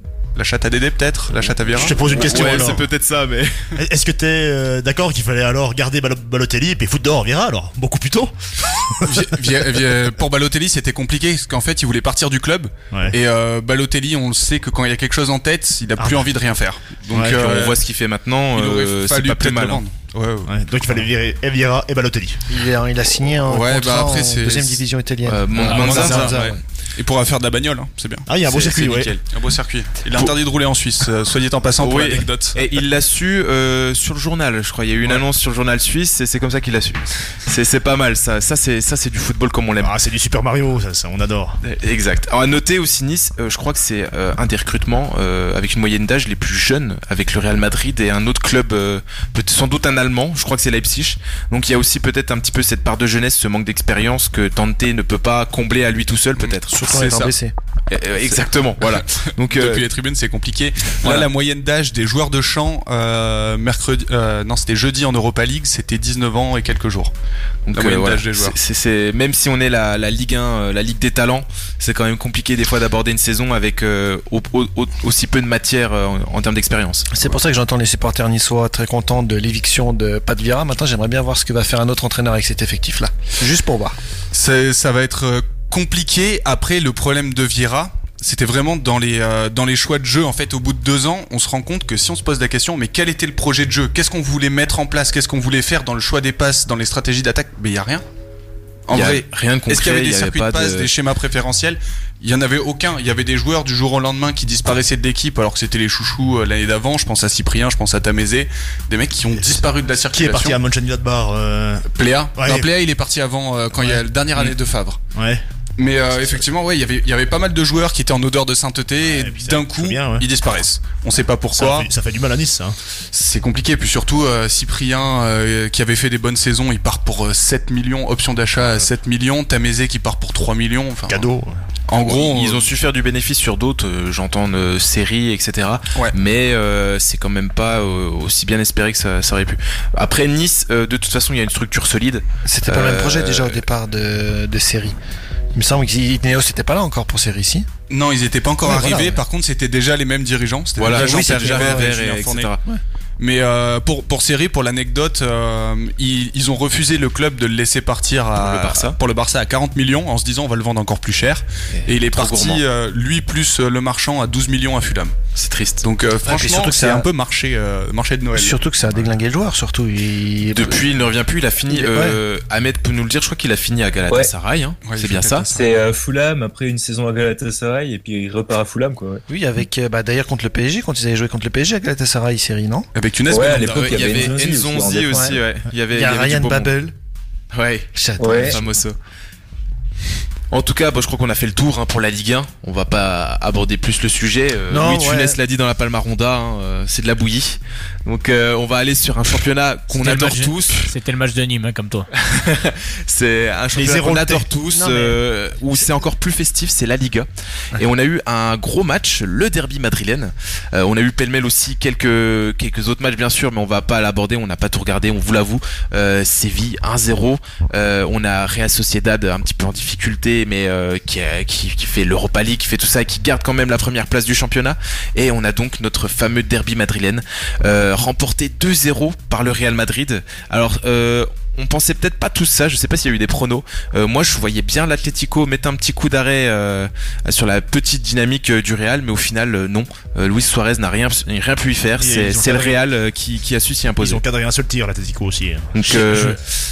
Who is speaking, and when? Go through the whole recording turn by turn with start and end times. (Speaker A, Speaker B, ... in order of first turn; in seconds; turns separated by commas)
Speaker A: 0.3-2.7, Speaker B: 1.7-3.5, Speaker C: 1.7-2.8, Speaker C: 3.8-9.2, Speaker A: 9.0-17.8, Speaker C: 16.0-16.3, Speaker C: 17.1-17.4, Speaker B: 17.1-19.8, Speaker A: 18.5-20.5, Speaker C: 20.4-22.4, Speaker D: 22.5-26.6, Speaker A: 23.4-24.8, Speaker B: 25.2-26.4, Speaker A: 25.5-32.6, Speaker C: 28.3-29.1, Speaker B: 28.7-29.1, Speaker B: 31.8-39.9, Speaker C: 39.8-41.6, Speaker B: 41.6-56.7, Speaker A: 56.4-57.3, Speaker D: 56.7-57.5, Speaker B: 57.9-59.9, Speaker A: 58.9-67.1, Speaker B: 61.0-61.3, Speaker B: 67.7-77.3, Speaker A: 67.7-68.6, Speaker D: 77.1-84.0, Speaker A: 84.3-98.0, Speaker A: 98.9-110.6, Speaker B: 98.9-100.9, Speaker C: 109.3-111.8, Speaker A: 111.9-115.0, Speaker C: 112.4-112.7, Speaker C: 113.8-114.5, Speaker C: 115.1-115.4, Speaker A: 115.8-121.9, Speaker C: 119.0-120.2, Speaker C: 121.5-122.8, Speaker A: 123.1-131.2, Speaker C: 131.1-131.5, Speaker A: 131.9-132.7, Speaker B: 132.0-143.6, Speaker D: 142.4-144.9, Speaker D: 145.5-147.7, Speaker A: 147.9-152.5, Speaker D: 148.6-149.2, Speaker B: 150.8-152.6, Speaker D: 150.9-152.0, Speaker A: 153.2-165.1, Speaker B: 158.4-159.0, Speaker B: 161.9-162.6, Speaker B: 165.3-165.8, Speaker A: 165.8-168.6, Speaker D: 166.2-167.1, Speaker D: 168.3-170.8, Speaker B: 170.5-175.5, Speaker D: 171.7-172.2, Speaker A: 174.8-175.5, Speaker E: 175.5-179.2, Speaker D: 179.3-182.9, Speaker A: 182.9-184.2, Speaker E: 183.3-185.3, Speaker B: 183.5-186.7, Speaker D: 185.1-185.4, Speaker D: 185.9-186.9, Speaker B: 187.5-188.9, Speaker D: 187.9-188.6, Speaker E: 188.2-188.6, Speaker B: 190.5-200.9, Speaker D: 194.7-195.4, Speaker F: 199.9-202.1, Speaker B: 202.1-244.2, Speaker C: 203.7-204.5, Speaker D: 204.7-205.2, Speaker C: 242.0-242.8, Speaker C: 244.0-246.2, Speaker B: 245.7-246.4, Speaker F: 245.9-246.3